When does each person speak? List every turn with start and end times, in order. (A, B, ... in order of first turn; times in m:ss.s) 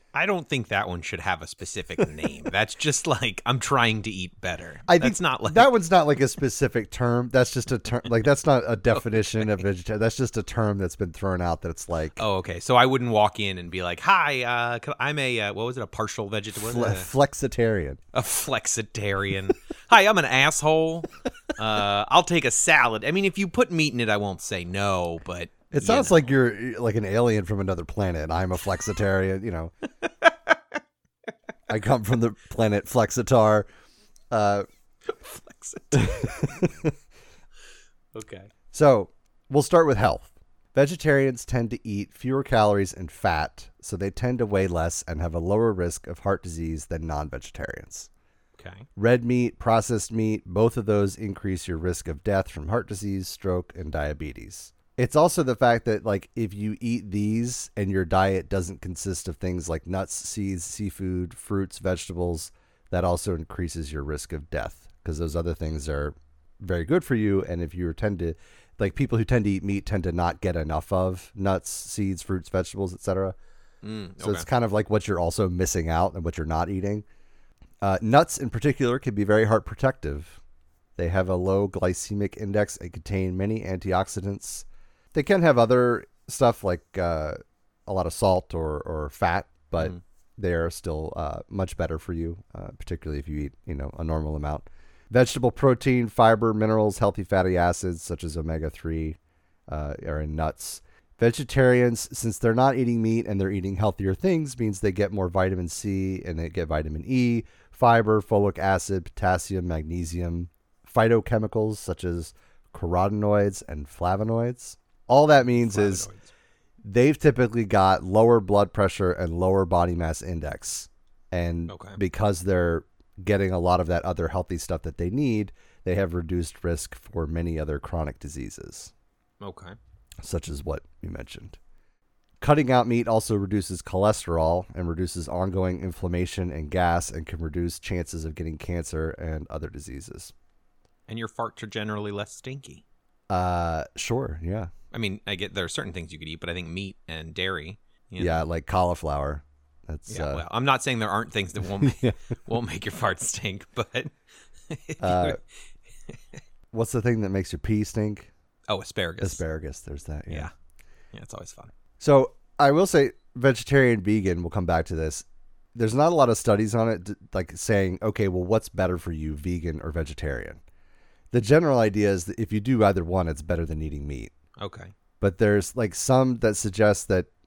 0:00.1-0:05.7 A
0:04.9-0:12.2 B
0:09.0-0:09.6 A
0:12.2-0:17.1 A
0:16.5-0:18.0 B
0:18.1-0:26.3 A
0:25.7-0:29.7 B
0:30.0-0:30.5 A
0:31.7-0:33.7 B
0:34.3-0:34.6 B
0:35.0-0:36.4 A
0:35.9-0:36.9 B
0:38.1-0:38.5 A
0:38.7-0:48.1 B
0:48.6-0:48.9 A
0:49.0-1:13.3 B
1:13.8-1:14.4 A
1:14.2-1:17.0 B
1:17.8-1:20.4 B
1:21.0-1:56.1 B
1:55.4-1:56.3 A
1:56.8-2:08.9 B
2:01.7-2:02.0 A
2:09.4-2:09.8 A
2:10.2-2:11.6 B
2:12.4-2:20.3 B
2:21.1-2:22.8 A
2:23.3-2:24.7 B
2:24.9-2:28.4 A
2:28.2-2:30.4 B
2:30.1-2:34.1 A
2:31.6-2:32.2 B
2:34.7-2:35.4 A
2:35.0-2:35.4 B
2:36.7-2:38.3 B
2:38.7-2:39.4 A
2:39.2-2:40.5 B
2:41.1-2:41.7 A
2:42.0-2:50.6 B
2:51.3-2:54.3 B
2:54.6-2:54.9 A
2:55.2-2:57.3 B